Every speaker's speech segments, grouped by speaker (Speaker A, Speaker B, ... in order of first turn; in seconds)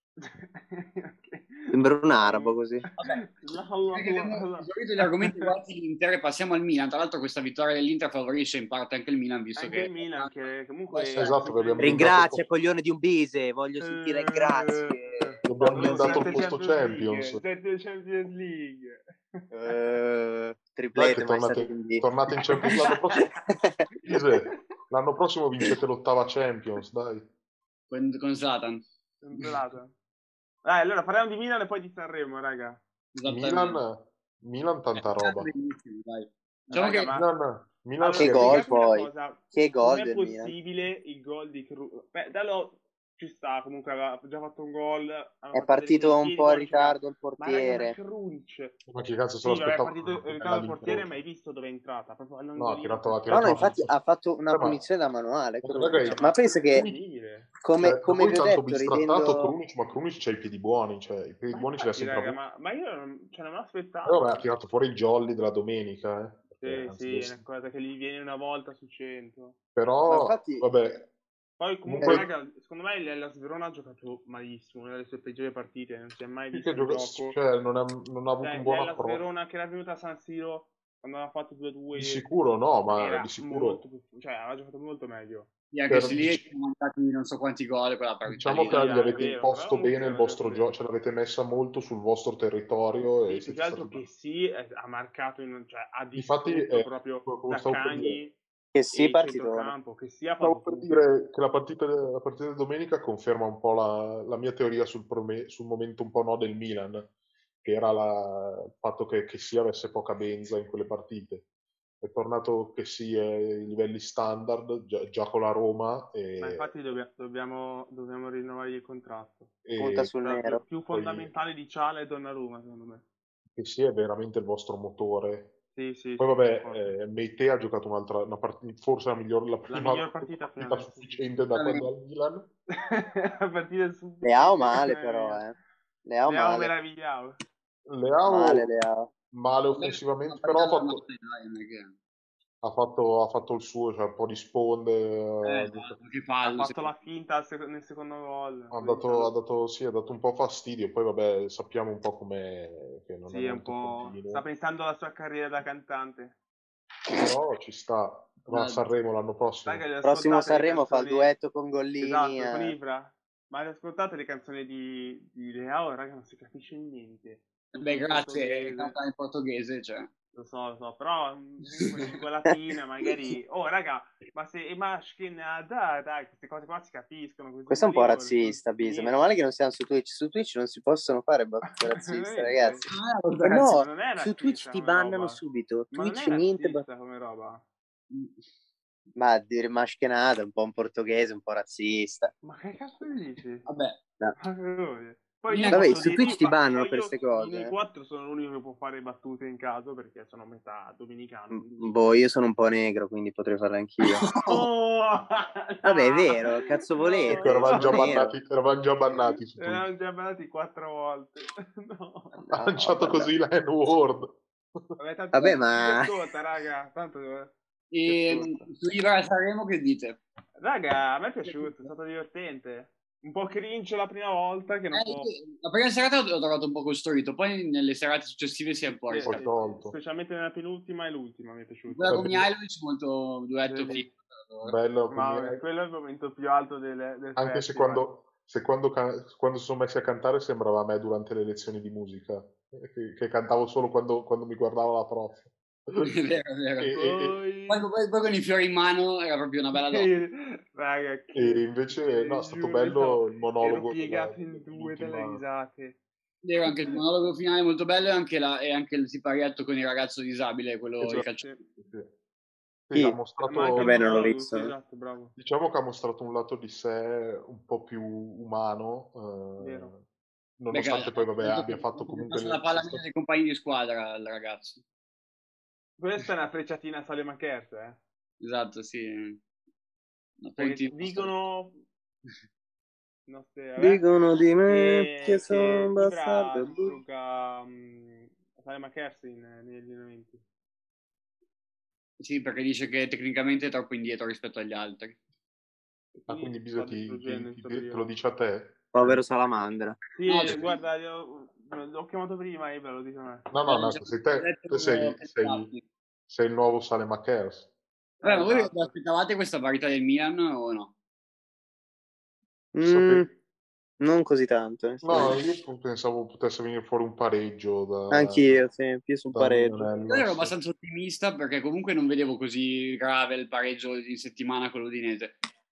Speaker A: 0.2-5.5, 9.6-12.2, 13.8-19.8, 29.2-29.9, 30.6-32.8, 36.7-37.3, 38.0-48.8, 49.4-53.7, 55.8-57.5, 61.5-64.4, 66.6-69.6, 71.6-77.4, 78.4-82.2, 82.9-85.5, 88.6-90.7, 93.2-98.4, 98.9-101.1, 116.4-119.5, 120.2-123.0, 125.7-127.0, 129.7-131.2, 132.8-135.4, 136.2-137.4, 146.4-149.3, 153.3-156.4, 159.6-161.3, 162.0-168.9, 170.3-179.2, 181.7-182.9, 183.7-185.4, 185.9-187.6, 192.4-193.7, 194.3-202.2, 204.4-208.2, 209.1-212.3, 215.0-217.5, 220.6-225.3, 229.1-232.2, 233.7-234.1, 235.1-238.0, 246.9-247.9, 249.7-256.0, 256.6-257.0, 263.4-265.4, 269.6-269.9, 276.0-278.0, 280.6-281.8, 283.3-284.0, 284.7-290.4, 296.1-298.1, 300.1-303.5, 308.2-308.9
Speaker B: 1.7-2.8, 11.8-16.4, 19.5-23.8, 38.2-40.5, 45.5-48.0, 53.3-56.9, 57.6-59.5, 70.1-70.7, 98.7-99.7, 119.8-120.6, 134.2-135.5, 136.1-136.7, 138.2-139.1, 160.0-162.7, 177.7-182.9, 183.4-186.8, 189.2-192.3, 195.7-197.7, 201.5-204.6, 205.8-208.3, 212.3-213.3, 215.3-216.1, 218.1-218.6, 263.8-264.7, 283.8-287.0, 298.9-300.0, 312.7-313.3, 314.0-315.4, 318.1-319.9
Speaker C: 3.0-3.2, 3.9-10.3, 27.9-28.8, 33.1-33.8, 35.0-37.1, 85.7-89.1, 131.5-131.9, 139.7-141.9, 145.4-146.9, 158.5-158.8, 167.7-170.1, 182.9-183.7, 188.1-188.3, 193.7-194.0, 195.5-196.4, 217.9-220.2, 221.4-221.7, 224.9-229.4, 231.9-234.8, 246.0-247.0, 247.7-250.1, 256.4-261.4, 270.7-274.8, 278.4-279.4, 280.4-281.3, 292.2-295.2, 300.3-300.8, 303.6-305.8, 308.2-310.9, 320.1-325.3
Speaker D: 11.1-12.4, 15.4-17.4, 20.9-23.3, 24.1-27.2, 33.2-35.5, 37.1-38.7, 48.9-51.2, 52.6-53.9, 54.5-54.8, 55.6-56.3, 57.8-62.4, 64.0-67.4, 69.8-71.1, 71.8-72.2, 76.5-79.2, 81.9-83.8, 85.9-86.4, 88.2-94.0, 96.1-98.2, 100.4-107.1, 107.6-111.4, 112.0-116.7, 119.6-120.1, 120.9-121.3, 123.5-125.5, 126.2-132.5, 137.9-138.7, 139.3-141.0, 142.6-145.9, 148.7-154.4, 157.1-159.9, 207.3-209.8, 212.5-214.8, 229.2-229.9, 232.1-232.5, 234.6-235.6, 237.3-246.1, 246.8-247.4, 251.3-255.4, 261.0-261.2, 261.8-262.1, 262.9-264.1, 265.4-270.0, 270.6-273.0, 296.3-299.2, 303.5-305.7, 306.3-307.7, 312.8-313.3, 315.0-318.6, 319.3-320.5